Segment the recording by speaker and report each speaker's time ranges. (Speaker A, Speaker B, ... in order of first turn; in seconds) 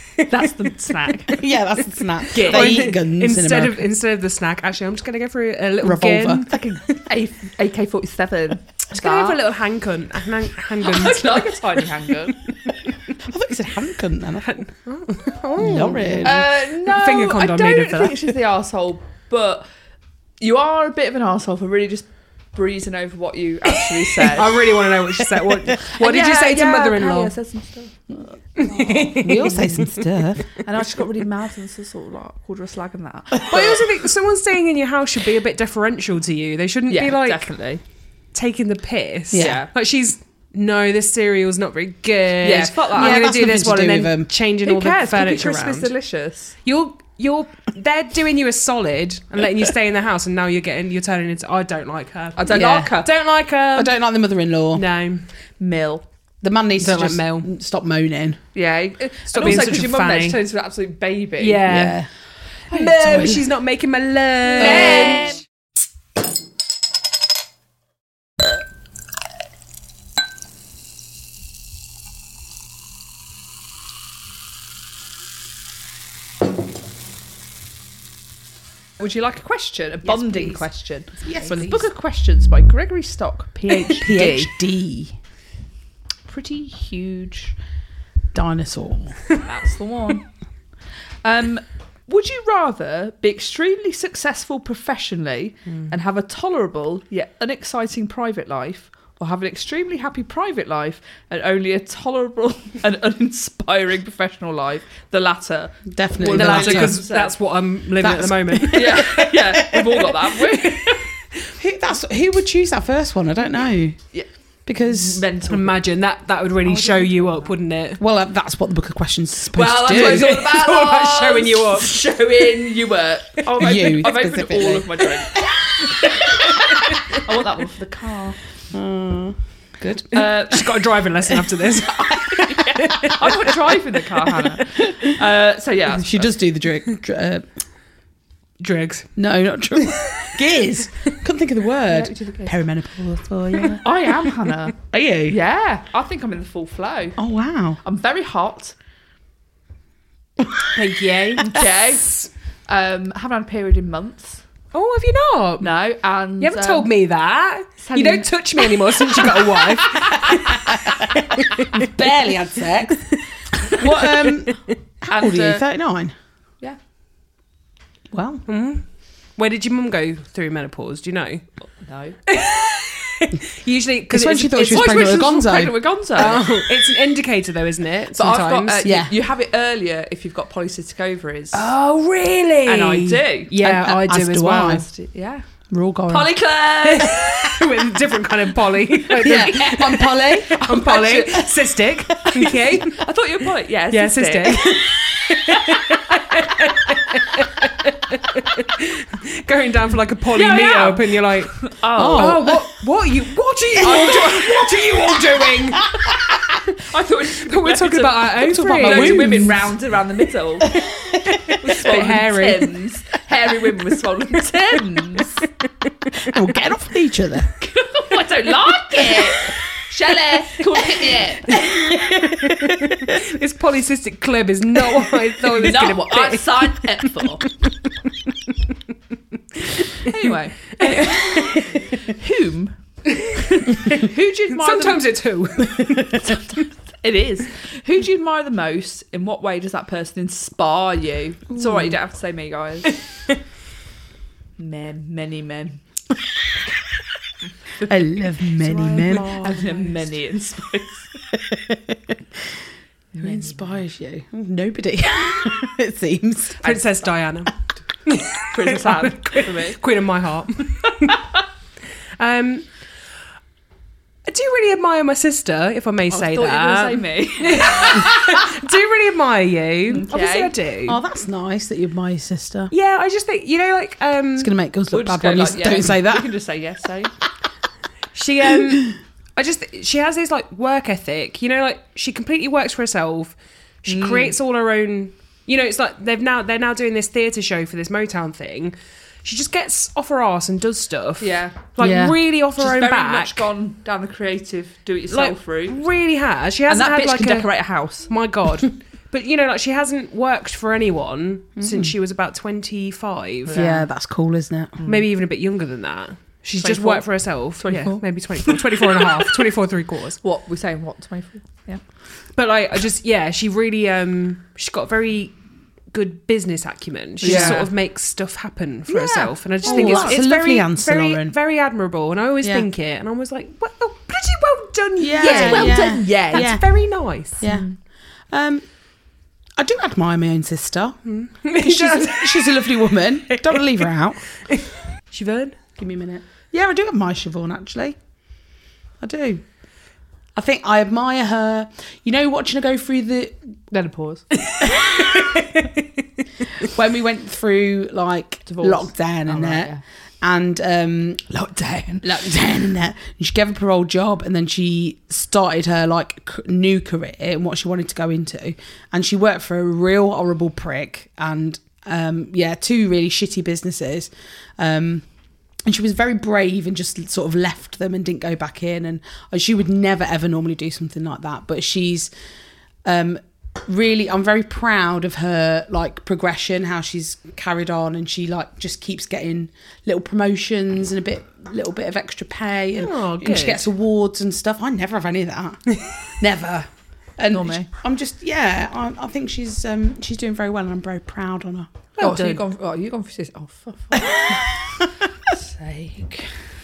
Speaker A: 0.2-1.4, 2.3-6.5, 8.9-11.8, 14.4-18.3, 23.7-27.3, 28.6-29.9, 33.5-37.5, 38.3-45.9, 46.6-53.9, 54.7-55.3, 56.8-57.5, 59.3-60.4, 61.4-62.0, 62.7-65.4, 106.3-109.3, 110.7-111.0, 115.5-118.0, 119.9-122.0, 130.1-133.6, 138.6-139.1, 139.8-140.3, 150.7-152.1, 154.7-155.7, 156.4-161.9, 163.8-164.5, 168.5-168.8, 169.4-171.4, 172.3-178.9, 181.5-184.8, 186.8-193.1, 193.9-201.6, 202.2-206.0, 207.3-209.5, 211.4-212.7, 222.2-228.6, 229.7-230.1, 230.8-231.7, 233.2-236.4, 248.6-249.9, 256.6-261.3, 262.2-262.7, 264.3-271.0, 272.7-274.5, 278.1-293.5, 295.1-297.5, 298.1-303.6, 304.9-310.2, 312.4-315.4, 315.9-327.4, 331.1-333.9, 334.5-335.6, 344.4-345.6, 382.8-383.7, 392.0-392.4
Speaker B: 0.3-1.4, 2.3-2.9, 6.5-9.4, 10.8-12.4, 16.2-19.6, 20.4-24.6, 25.9-29.9, 30.6-33.8, 36.9-37.8, 39.3-39.7, 42.4-43.5, 44.6-46.6, 52.4-53.1, 55.6-56.0, 58.5-61.7, 64.6-65.4, 79.0-84.5, 86.3-87.6, 89.3-90.3, 91.2-107.3, 108.7-111.0, 114.8-115.8, 116.7-117.5, 119.5-128.4, 130.1-130.7, 132.5-136.3, 141.9-142.6, 143.8-144.8, 145.3-147.2, 147.8-148.8, 151.4-152.1, 152.7-154.4, 155.6-156.9, 157.8-160.5, 165.1-165.6, 171.8-172.2, 174.7-176.5, 178.2-181.7, 182.7-183.5, 184.8-185.4, 186.1-187.3, 189.3-191.5, 192.8-194.9, 195.5-195.8, 200.3-202.5, 203.8-205.3, 206.8-210.8, 211.5-215.4, 217.5-221.7, 225.5-227.5, 230.0-235.0, 236.1-243.0, 244.6-245.8, 247.8-248.1, 249.0-251.1, 253.1-253.8, 256.6-256.9, 258.5-259.8, 266.1-268.6, 269.9-270.5, 274.9-277.1, 283.9-284.3, 291.2-291.6, 292.6-295.8, 296.7-298.1, 303.5-303.9, 304.8-305.1, 306.6-308.8, 310.2-311.8, 317.2-317.7, 318.9-320.2, 325.2-326.5, 327.4-327.7, 343.7-344.2, 348.5-349.8, 351.3-352.2, 387.3-387.7, 392.0-394.6, 395.3-396.4
Speaker C: 1.3-3.8, 5.8-6.5, 13.2-14.6, 15.6-16.4, 29.2-30.6, 39.3-39.7, 42.9-44.3, 52.5-52.9, 53.8-54.8, 56.4-58.4, 61.7-62.1, 62.7-63.5, 64.6-65.3, 81.2-81.8, 83.9-85.2, 88.3-89.2, 105.9-107.0, 108.0-110.2, 111.6-114.0, 114.7-115.3, 118.0-120.4, 123.6-126.7, 128.7-130.3, 131.9-132.1, 134.7-135.1, 135.9-137.4, 139.2-144.1, 144.8-145.4, 147.2-147.8, 160.3-166.1, 168.1-168.4, 174.1-175.8, 178.8-179.1, 183.5-184.9, 185.7-186.4, 189.2-190.9, 201.9-202.6, 208.4-209.7, 210.7-211.5, 216.2-217.5, 221.0-223.2, 231.4-231.6, 241.5-242.0, 247.8-249.3, 251.3-252.1, 253.2-256.8, 270.9-272.7, 274.4-276.3, 291.8-292.2, 301.6-301.9, 303.5-304.8, 317.2-317.7, 319.6-321.3, 325.0-327.7, 328.3-328.7, 329.6-334.3, 335.8-338.0, 339.0-339.4, 340.4-343.4, 344.6-345.5, 346.6-351.3, 352.0-365.1, 365.7-372.1, 372.9-391.7, 394.0-394.9